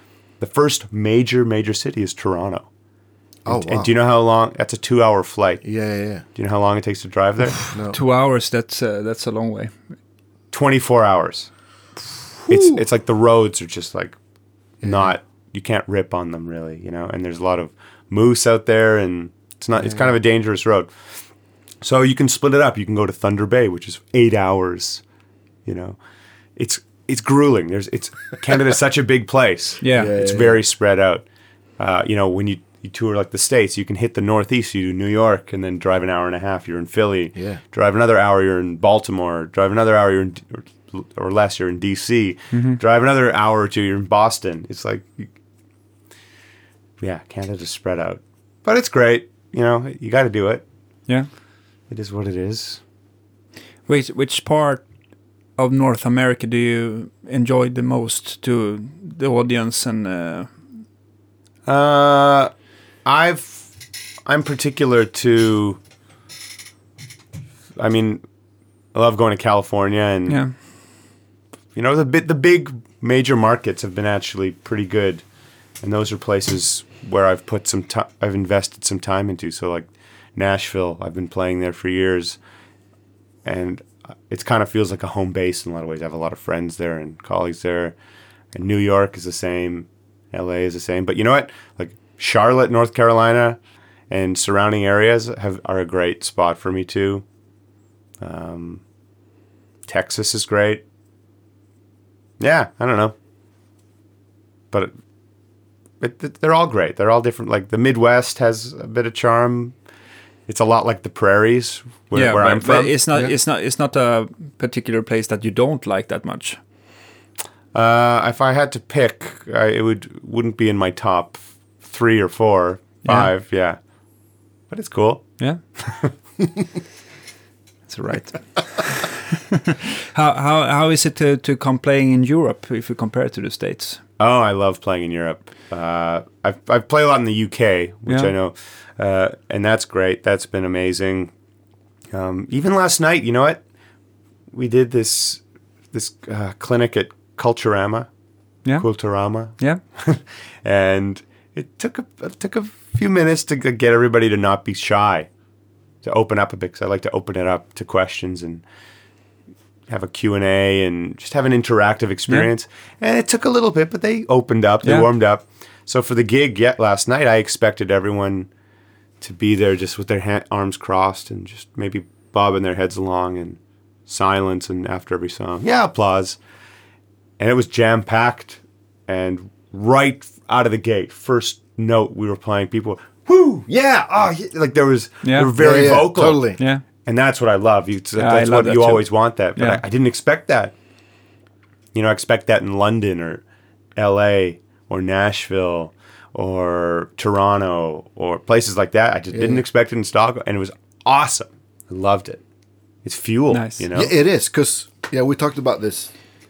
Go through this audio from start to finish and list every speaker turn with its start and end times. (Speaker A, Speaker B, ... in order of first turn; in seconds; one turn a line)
Speaker A: 0.4-2.7
Speaker B: 3.5-3.9
Speaker A: 3.5-5.7
Speaker B: 5.6-6.2
Speaker A: 6.3-7.7
Speaker B: 7.7-8.0
Speaker C: 7.7-9.8
Speaker A: 10.5-11.5
Speaker A: 12.5-14.2
Speaker B: 12.5-12.8
Speaker A: 14.8-21.1
Speaker B: 14.8-15.1
Speaker B: 19.8-20.1
Speaker A: 21.8-25.0
Speaker A: 25.7-26.0
Speaker A: 26.6-31.3
Speaker C: 29.8-30.1
Speaker B: 29.9-30.6
Speaker A: 31.8-45.3
Speaker B: 37.4-37.6
Speaker C: 42.5-42.8
Speaker A: 47.0-50.6
Speaker A: 51.9-52.8
Speaker C: 53.9-54.9
Speaker C: 55.6-60.5
Speaker A: 61.7-62.5
Speaker A: 63.0-63.7
Speaker A: 64.2-65.8
Speaker A: 67.8-68.2
Speaker A: 68.9-70.4
Speaker C: 70.3-70.5
Speaker A: 71.8-75.2
Speaker A: 75.8-82.4
Speaker A: 83.4-88.0
Speaker A: 88.5-93.6
Speaker A: 94.1-97.2
Speaker A: 98.2-98.8
Speaker A: 99.9-100.8
Speaker A: 102.4-103.1
Speaker A: 106.0-109.8
Speaker A: 110.5-113.0
Speaker C: 112.2-116.6
Speaker A: 117.7-123.8
Speaker C: 123.0-123.3
Speaker A: 124.7-126.1
Speaker C: 127.9-134.0
Speaker A: 134.2-141.3
Speaker A: 142.1-143.6
Speaker A: 144.5-145.4
Speaker A: 145.9-148.1
Speaker A: 148.8-155.3
Speaker A: 156.0-158.6
Speaker A: 159.9-168.5
Speaker C: 164.8-165.1
Speaker A: 169.2-176.4
Speaker A: 177.4-190.7
Speaker C: 185.2-185.5
Speaker B: 185.6-186.6
Speaker C: 186.6-186.8
Speaker C: 188.2-189.8
Speaker A: 191.9-193.4
Speaker A: 194.0-202.4
Speaker B: 199.3-199.6
Speaker A: 203.0-204.1
Speaker C: 203.5-203.8
Speaker B: 203.9-206.1